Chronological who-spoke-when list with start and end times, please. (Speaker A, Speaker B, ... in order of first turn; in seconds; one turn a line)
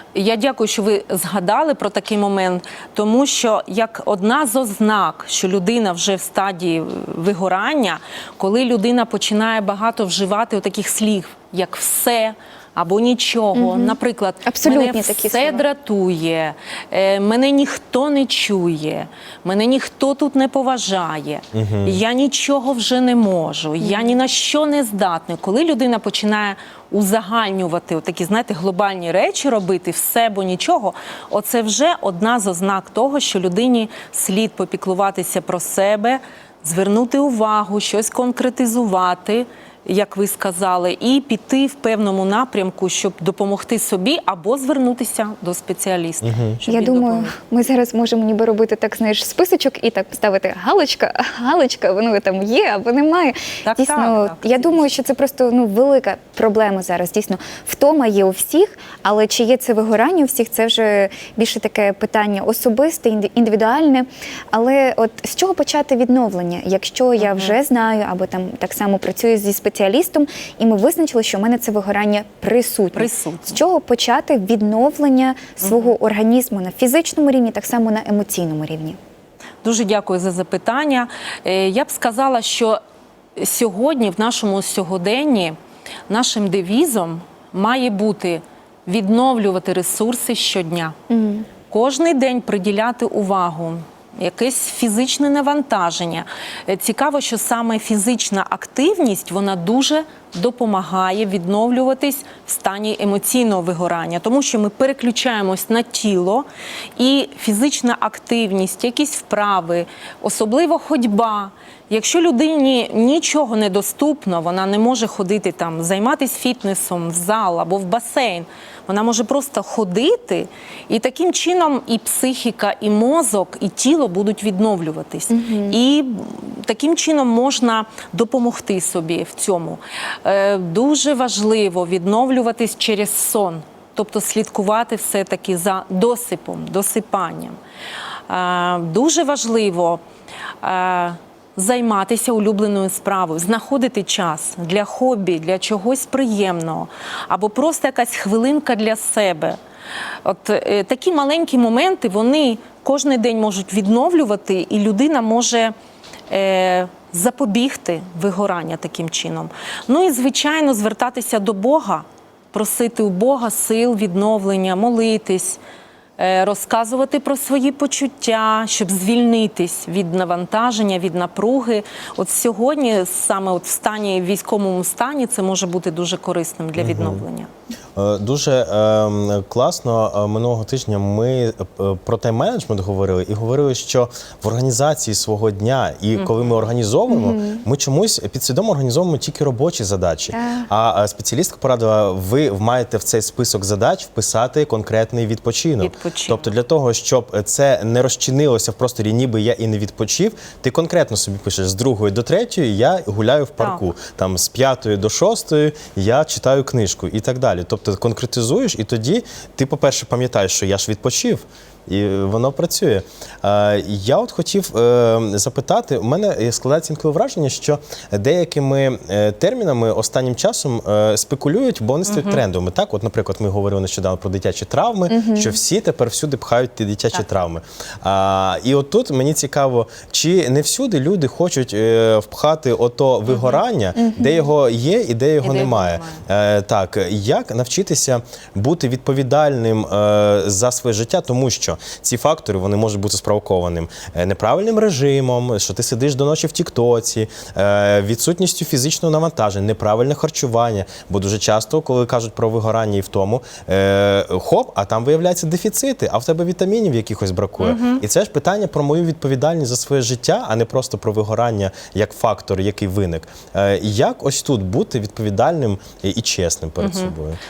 Speaker A: 0.1-47.3
Speaker B: 13.5-15.6
Speaker C: 21.5-22.0
Speaker B: 23.8-24.1
Speaker C: 46.2-46.6
Speaker B: 46.6-79.0
Speaker A: 53.6-54.9
Speaker A: 67.2-67.5
Speaker A: 72.9-73.6
Speaker A: 79.6-82.8
Speaker A: 83.4-85.5
Speaker A: 86.1-91.0
Speaker B: 91.1-91.5
Speaker A: 91.7-137.6
Speaker B: 125.3-125.8
Speaker A: 138.3-140.0
Speaker A: 140.6-149.6
Speaker A: 150.2-155.7
Speaker A: 156.3-165.6
Speaker A: 166.2-177.5
Speaker C: 176.8-177.2
Speaker C: 177.9-267.4
Speaker B: 187.1-187.6
Speaker B: 190.3-190.7
Speaker A: 195.8-196.5
Speaker A: 222.1-222.4
Speaker B: 225.1-225.6
Speaker A: 233.3-233.6
Speaker B: 233.9-234.5
Speaker A: 235.4-236.2
Speaker A: 257.6-258.0
Speaker A: 266.8-267.1